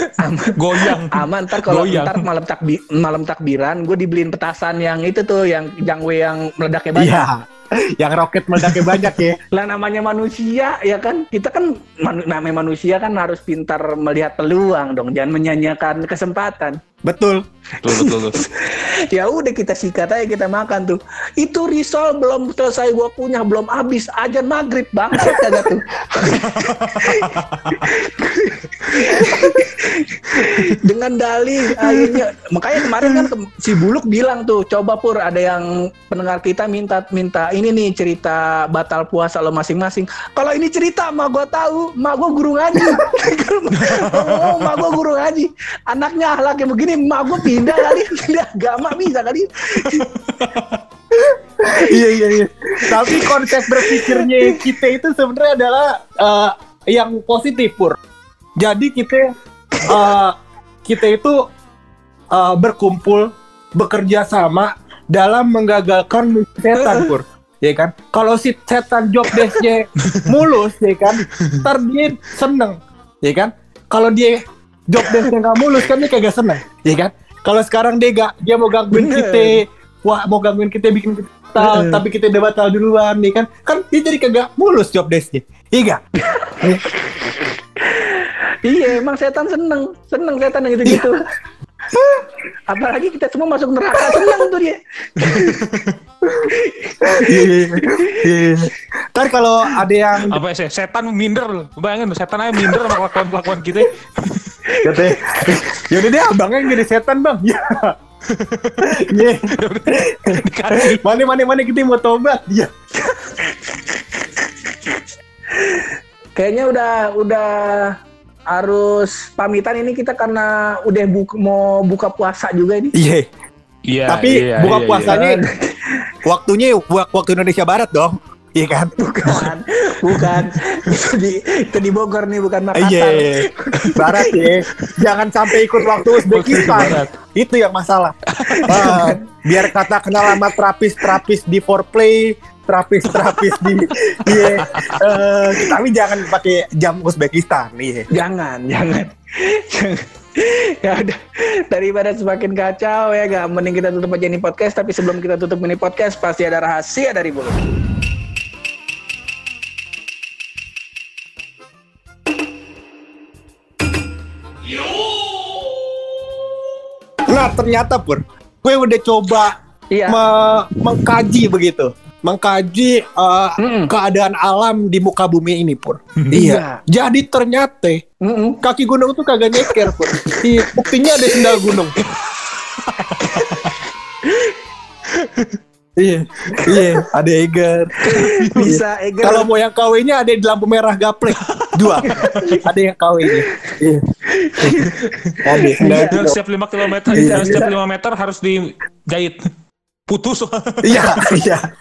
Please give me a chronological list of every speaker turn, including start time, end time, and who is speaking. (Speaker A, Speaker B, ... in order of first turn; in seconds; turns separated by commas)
Speaker A: 0.2-7.2, Speaker B: 0.6-2.2, Speaker C: 7.0-9.4, Speaker B: 8.7-9.0, Speaker A: 9.5-16.8, Speaker C: 17.0-17.4, Speaker B: 17.8-18.4, Speaker A: 18.0-50.1, Speaker C: 25.2-25.6, Speaker B: 26.3-27.9, Speaker B: 29.1-29.5, Speaker B: 31.9-32.2, Speaker B: 43.8-44.9, Speaker B: 49.8-50.8, Speaker C: 51.2-58.0, Speaker A: 53.8-54.6, Speaker C: 58.6-59.3, Speaker C: 59.9-61.4, Speaker C: 62.3-86.0, Speaker A: 66.8-67.1, Speaker A: 78.9-79.5, Speaker A: 81.6-82.0, Speaker A: 86.2-86.8, Speaker A: 87.8-91.2, Speaker C: 91.9-92.3, Speaker A: 92.7-95.6, Speaker C: 94.1-94.4, Speaker B: 95.2-96.0, Speaker A: 96.5-97.3, Speaker C: 97.2-100.4, Speaker B: 100.2-104.5, Speaker C: 104.8-108.0, Speaker B: 108.3-111.0, Speaker C: 108.8-109.5, Speaker C: 110.1-112.7, Speaker A: 113.0-113.8, Speaker A: 115.6-118.0, Speaker A: 118.5-123.0, Speaker C: 123.0-123.3, Speaker B: 123.9-125.2, Speaker C: 124.1-125.4, Speaker A: 125.1-125.9, Speaker C: 126.2-129.5, Speaker A: 129.0-134.5, Speaker C: 132.8-138.2, Speaker B: 136.3-137.1, Speaker B: 138.4-139.0, Speaker A: 138.5-139.3, Speaker C: 138.7-148.1, Speaker B: 143.1-145.2, Speaker A: 148.1-157.7, Speaker C: 167.3-169.6, Speaker A: 169.9-170.2, Speaker C: 170.1-178.0, Speaker A: 173.6-173.9, Speaker B: 176.2-176.4, Speaker A: 176.3-176.8, Speaker A: 178.2-178.6, Speaker C: 178.6-182.0, Speaker B: 182.8-183.8, Speaker A: 183.2-183.6, Speaker A: 184.3-184.5, Speaker B: 185.1-185.6, Speaker C: 186.0-188.0, Speaker A: 188.0-189.5, Speaker B: 188.2-188.8, Speaker C: 188.6-194.0, Speaker B: 191.5-192.5, Speaker A: 192.0-192.6, Speaker A: 194.3-195.0, Speaker B: 194.8-199.4, Speaker C: 195.4-196.4, Speaker A: 195.6-196.2, Speaker A: 197.1-197.7, Speaker C: 197.2-197.7, Speaker B: 200.1-201.4, Speaker C: 200.8-201.7